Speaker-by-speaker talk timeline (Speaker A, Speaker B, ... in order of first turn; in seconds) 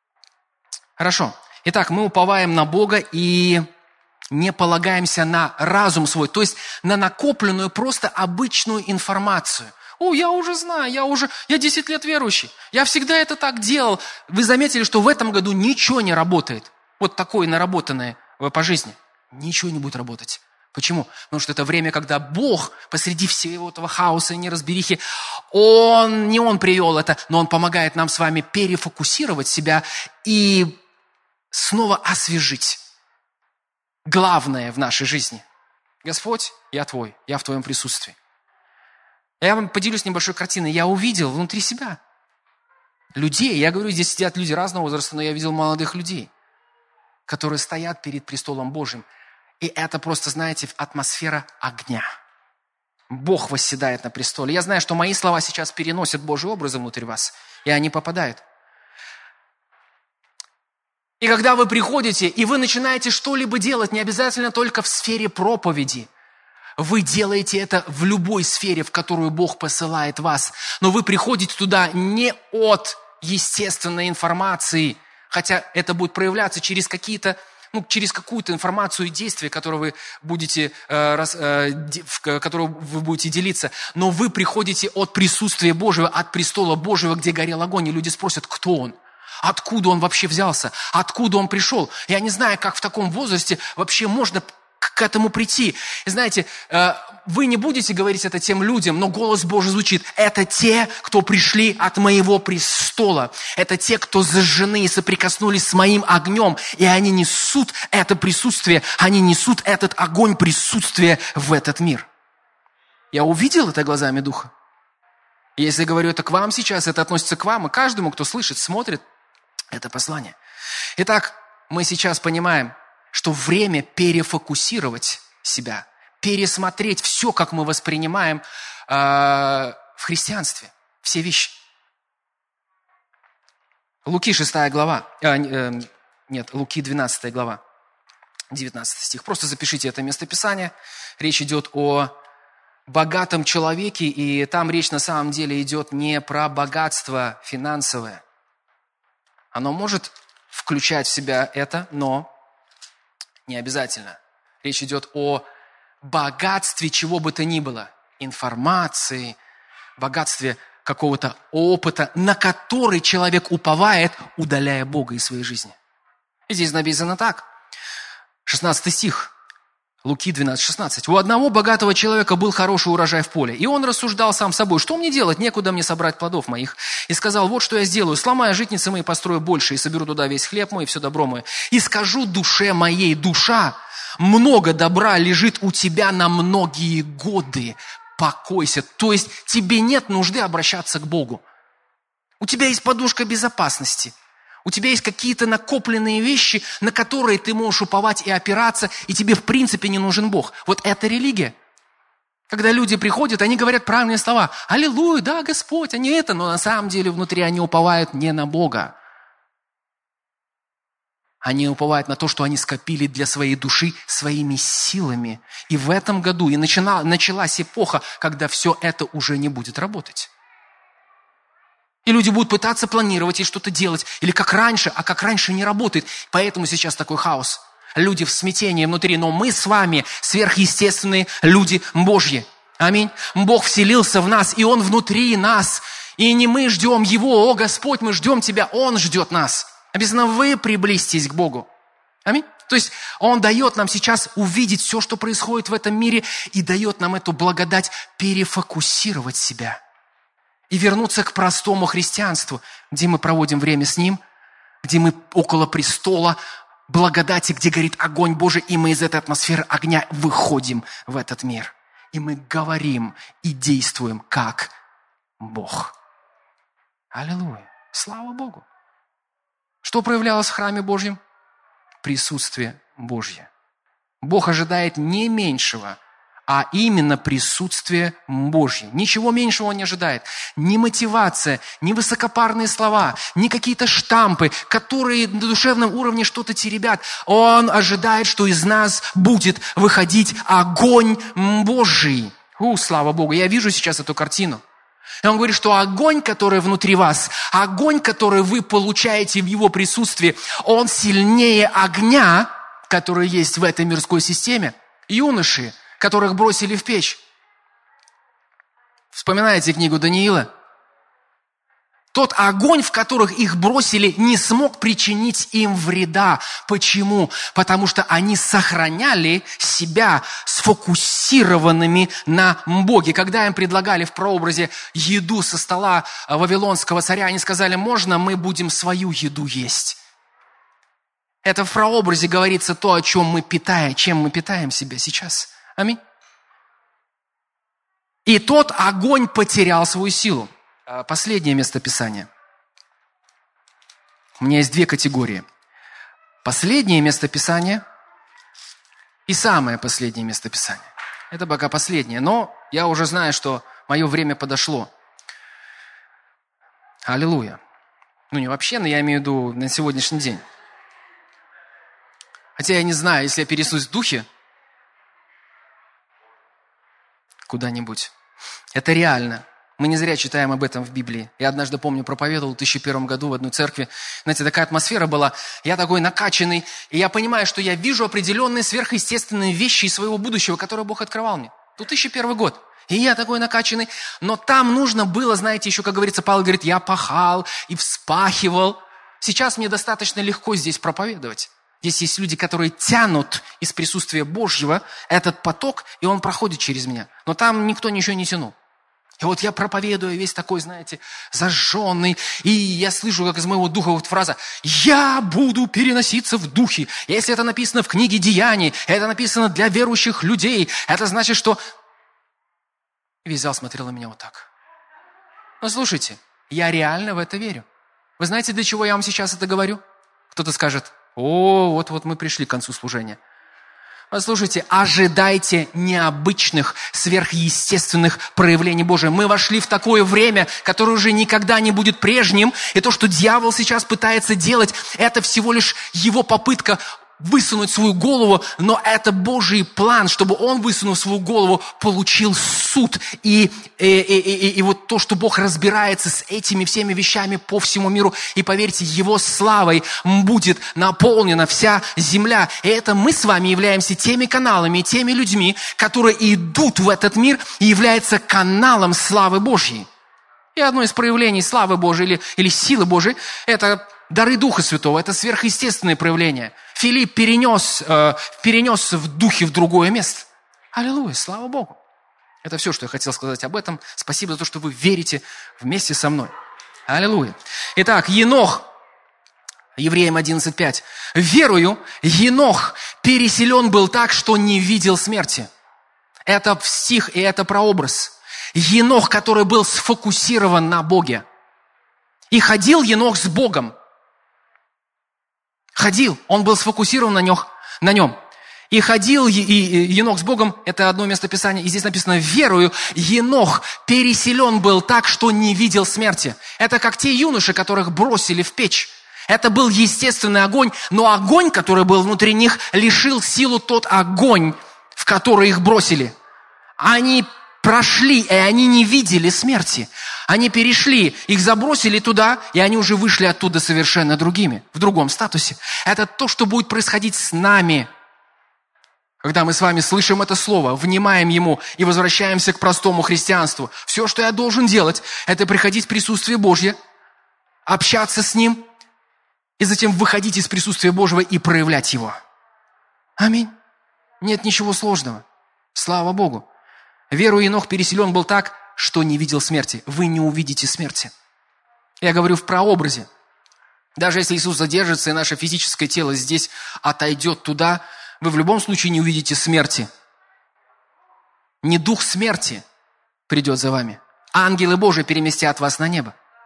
Speaker A: 1.0-3.6, 4.3-30.8, 31.5-32.8, 34.0-35.4, 36.0-38.2, 39.4-42.0, 43.1-46.3, 47.3-49.0, 49.6-52.1, 53.1-58.4, 61.2-66.1, 66.8-112.1, 113.1-114.5, 115.6-119.0, 119.7-120.3, 121.0-131.6, 134.0-137.6, 138.5-142.1, 142.9-148.2, 149.5-152.3, 153.5-155.4, 156.0-159.4, 160.0-165.7, 166.5-167.5, 168.4-169.3, 170.0-191.4, 192.4-194.1, 194.6-201.5, 202.5-208.9, 211.4-220.3, 222.0-241.7, 242.2-249.8, 250.7-254.2, 254.8-256.4, 256.9-264.7, 265.4-265.9, 267.1-268.6, 269.8-271.2, 272.0-273.5, 274.2-294.6, 295.2-307.2, 309.1-310.5, 312.1-330.0, 331.4-336.0, 338.2-342.3, 344.4-345.4, 346.4-347.8, 349.3-354.9, 357.0-357.6, 358.3-360.4, 362.6-364.2, 367.5-368.1, 368.7-398.5, 399.2-411.6, 413.2-414.5, 415.6-417.6, 418.2-423.2, 424.1-459.9, 460.5-471.8, 472.4-476.3, 476.9-478.7, 479.8-485.5, 486.3-491.2, 492.3-493.7, 495.7-498.1, 498.7-516.1, 516.8-527.9, 529.2-536.8, 537.6-538.6, 539.6-542.2, 543.2-543.5, 544.2-546.5, 547.1-551.1, 552.0-553.1, 554.0-559.9, 561.6-562.6, 563.3-566.1